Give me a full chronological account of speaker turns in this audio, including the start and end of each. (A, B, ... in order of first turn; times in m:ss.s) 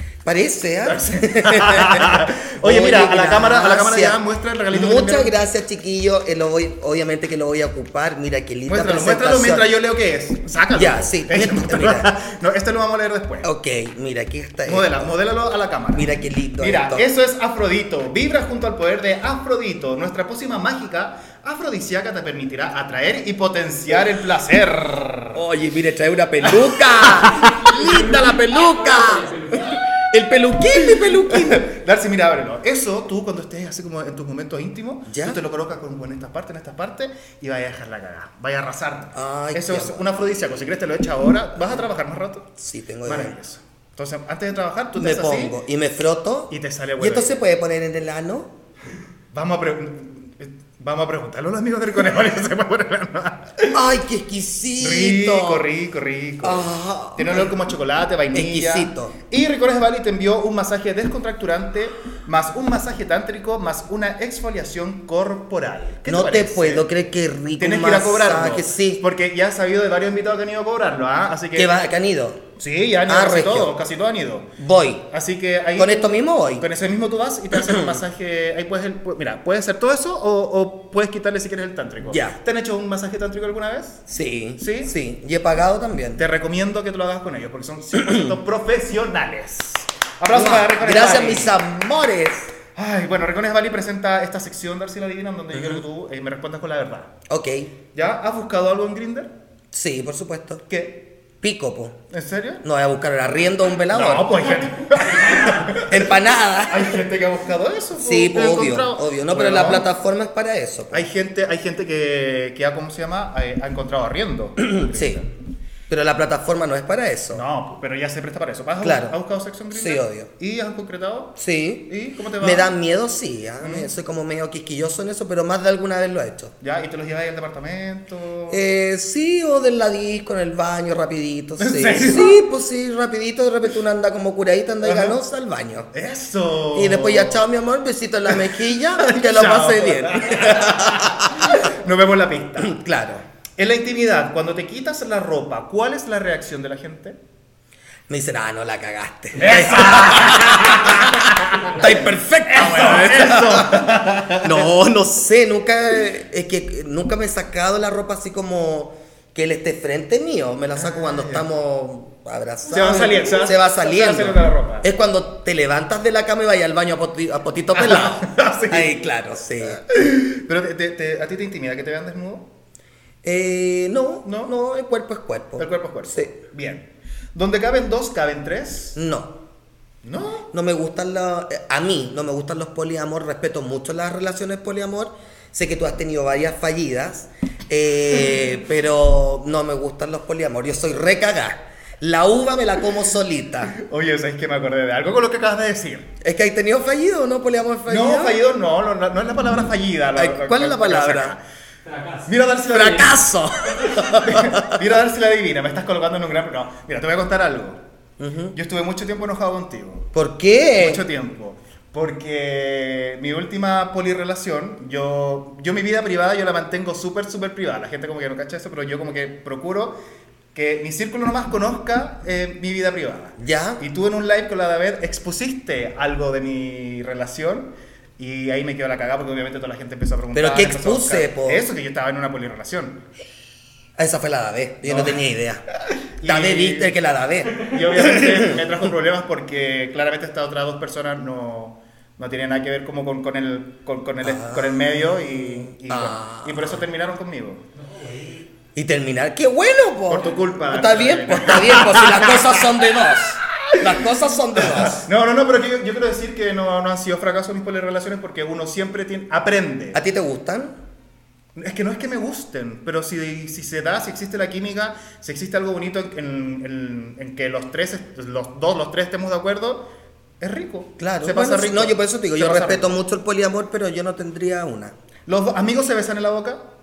0:00.2-0:09.7 A
0:00.8-0:05.3 B
0:08.7-0:13.5 B
0:10.7-0:12.1 A
0:13.4-0:15.1 A
0:14.7-0:16.1 B
0:15.9-0:17.0 A
0:16.6-0:25.4 B
0:25.3-0:31.7 A
0:26.4-0:27.5 B
0:27.6-0:29.8 C
0:31.2-0:42.5 B
0:35.1-0:35.4 A
0:39.1-0:40.1 A
0:42.6-0:43.4 A
0:43.0-0:45.6 B
0:45.0-0:48.5 A
0:46.5-0:47.4 B
0:49.3-0:53.8 B
0:53.7-0:55.6 A
0:54.8-1:06.8 B
0:56.4-0:57.6 A
0:58.3-0:59.1 A
1:06.1-1:09.0 A
1:07.6-1:11.8 B
1:11.5-1:12.5 A
1:12.6-1:14.5 B
1:13.1-1:13.7 A
1:14.6-1:15.1 A
1:15.1-1:24.0 B
1:15.8-1:16.7 A
1:17.5-1:18.0 A
1:22.0-1:22.4 A
1:24.1-1:26.2 A
1:24.6-1:24.9 B
1:26.2-1:31.6 B
1:28.0-1:28.3 A
1:30.3-1:32.5 A
1:32.8-1:37.1 B
1:35.5-1:35.8 A
1:37.3-1:37.7 A
1:38.0-1:39.3 B
1:39.7-1:40.6 A
1:40.7-1:41.1 B
1:41.4-1:42.0 A
1:42.1-1:42.6 B
1:42.6-1:47.0 A
1:43.9-1:49.8 B
1:47.9-1:51.1 A
1:50.9-1:55.3 B
1:54.6-1:55.2 A
1:55.9-1:57.4 A
1:57.3-2:02.7 B
1:58.8-1:59.2 A
1:59.7-2:00.3 A
2:01.4-2:06.5 A
2:03.6-2:03.9 B
2:06.6-2:08.6 B
2:08.5-2:15.9 A
2:11.6-2:12.4 B
2:14.8-2:15.2 B
2:15.9-2:17.4 B
2:16.7-2:21.7 A
2:18.3-2:22.8 B
2:22.6-2:23.2 A
2:23.6-2:27.2 B
2:28.1-2:49.8 A
2:29.4-2:31.9 B
2:32.4-2:34.7 B
2:40.8-2:41.5 B
2:42.7-2:44.9 B
2:47.7-2:48.9 B
2:49.7-2:52.5 B
2:53.2-2:56.3 A
2:54.2-2:54.5 B
2:55.6-2:59.0 B
2:59.0-2:59.4 A
3:00.0-3:00.5 B
3:00.5-3:13.7 A
3:13.7-3:16.1 B
3:16.2-3:18.4 A
3:17.9-3:21.4 B
3:20.2-3:21.4 A
3:21.8-3:22.3 C
3:22.3-3:23.1 B
3:22.7-3:24.8 A
3:23.7-3:24.1 C
3:24.1-3:27.8 B
3:28.2-3:28.6 A
3:28.5-3:30.1 B
3:30.1-3:31.0 A
3:30.8-3:40.0 B
3:40.5-3:53.0 B
3:43.4-3:43.8 A
3:50.3-3:51.7 A
3:54.0-3:55.6 A
3:54.8-3:55.2 B
3:56.2-3:56.9 B
3:56.2-3:58.6 A
3:57.6-4:07.6 B
4:04.2-4:06.8 A
4:07.7-4:08.5 C
4:08.8-4:15.1 A
4:10.1-4:12.6 B
4:14.6-4:20.0 B
4:19.9-4:20.8 A
4:21.6-4:29.9 B
4:30.4-4:33.0 B
4:31.0-4:35.0 A
4:35.3-4:36.6 B